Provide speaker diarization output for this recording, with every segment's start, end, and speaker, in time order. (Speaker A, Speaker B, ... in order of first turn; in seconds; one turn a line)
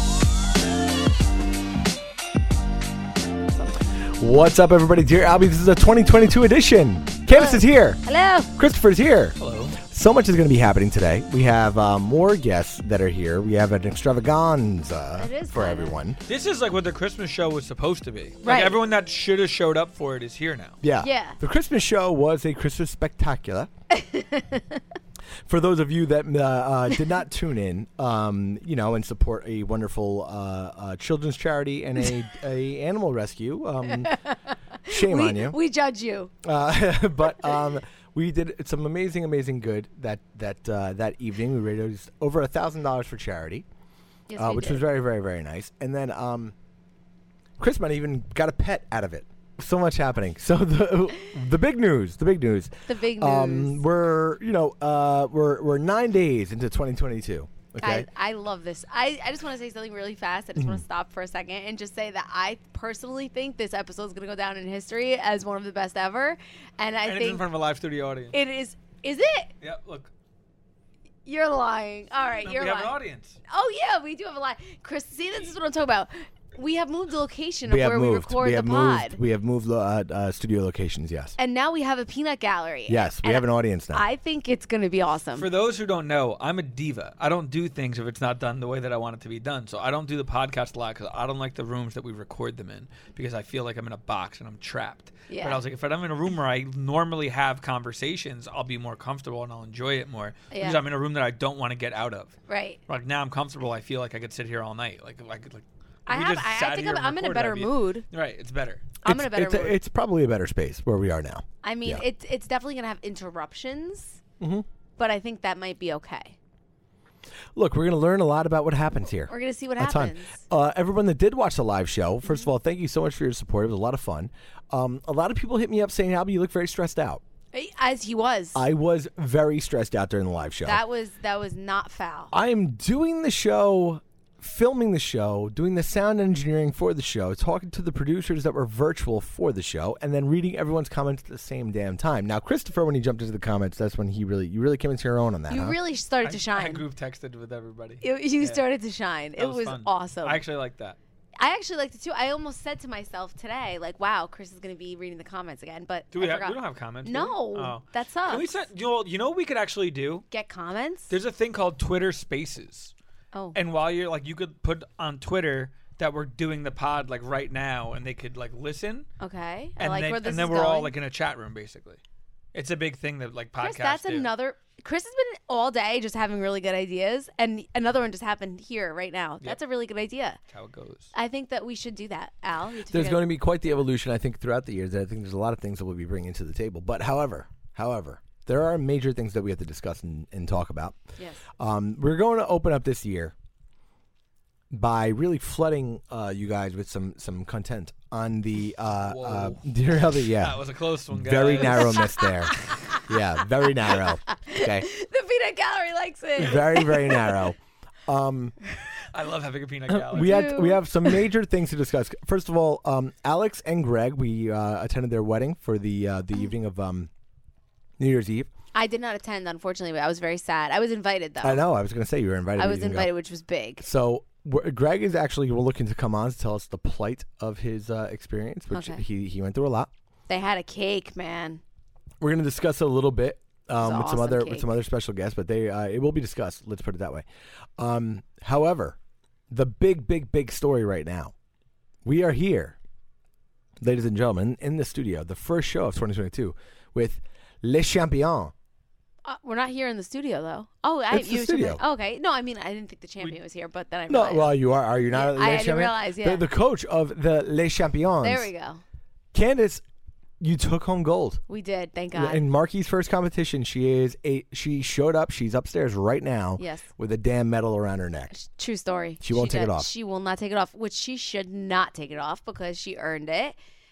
Speaker A: 4.2-8.0
Speaker B: 7.3-8.5
Speaker A: 8.6-16.2
Speaker C: 9.4-9.8
Speaker B: 15.2-16.0
Speaker C: 16.2-20.8
Speaker B: 18.4-18.8
Speaker A: 20.8-23.7
Speaker B: 21.0-21.4
Speaker B: 23.9-24.8
Speaker A: 25.5-34.1
Speaker B: 33.9-36.3
Speaker A: 34.9-35.6
Speaker A: 36.4-43.6
Speaker B: 44.3-44.8
Speaker A: 44.4-46.5
Speaker A: 47.6-58.1
Speaker B: 52.9-53.8
Speaker B: 57.8-67.4
Speaker A: 60.5-60.8
Speaker C: 67.0-68.3
Speaker B: 68.3-69.5
Speaker C: 69.6-70.1
Speaker B: 71.2-79.2
Speaker C: 72.4-73.4
Speaker A: 77.7-81.3
Speaker B: 81.4-85.5
Speaker A: 82.9-84.0
Speaker C: 85.3-102.3
Speaker B: 95.3-95.6
Speaker B: 100.5-100.8
Speaker B: 102.5-102.8
Speaker C: 102.9-108.9
Speaker B: 106.1-108.0
Speaker A: 109.0-112.0
Speaker B: 109.0-109.8
Speaker B: 111.6-114.2
Speaker A: 114.4-114.6
Speaker B: 115.0-116.4
Speaker A: 117.5-127.2
Speaker B: 119.3-120.4
Speaker B: 122.2-122.5
Speaker B: 127.5-128.6
Speaker A: 128.5-130.8
Speaker B: 130.6-132.3
Speaker A: 132.3-145.8
Speaker B: 145.5-146.8
Speaker C: 146.2-148.6
Speaker B: 148.0-150.4
Speaker C: 149.4-151.0
Speaker B: 151.4-158.5
Speaker C: 156.1-160.2
Speaker B: 160.3-161.1
Speaker C: 161.1-162.9
Speaker C: 163.5-169.1
Speaker B: 169.2-170.9
Speaker C: 169.8-172.0
Speaker C: 172.5-174.3
Speaker B: 173.6-180.4
Speaker C: 180.5-181.1
Speaker B: 181.1-183.2
Speaker A: 182.9-191.0
Speaker B: 191.2-191.4
Speaker A: 191.6-193.3
Speaker A: 194.7-204.9
Speaker C: 199.0-199.6
Speaker C: 200.2-202.1
Speaker B: 201.6-203.0
Speaker B: 203.8-207.4
Speaker A: 206.4-208.5
Speaker C: 209.1-210.4
Speaker A: 209.9-217.1
Speaker B: 210.1-211.2
Speaker A: 218.0-218.5
Speaker B: 218.7-221.6
Speaker A: 221.4-223.1
Speaker B: 222.6-223.8
Speaker A: 223.8-229.9
Speaker B: 228.7-229.0
Speaker B: 230.3-231.6
Speaker A: 232.2-237.2
Speaker B: 233.8-234.7
Speaker A: 237.8-239.0
Speaker A: 239.5-241.3
Speaker A: 242.0-242.8
Speaker A: 243.8-248.5
Speaker B: 249.2-254.6
Speaker A: 251.1-251.8
Speaker A: 254.1-258.5
Speaker B: 255.1-256.4
Speaker B: 258.2-258.8
Speaker A: 259.3-259.8
Speaker A: 260.4-261.4
Speaker B: 261.5-262.4
Speaker A: 262.1-268.3
Speaker B: 266.6-266.9
Speaker B: 268.3-273.6
Speaker A: 269.2-269.9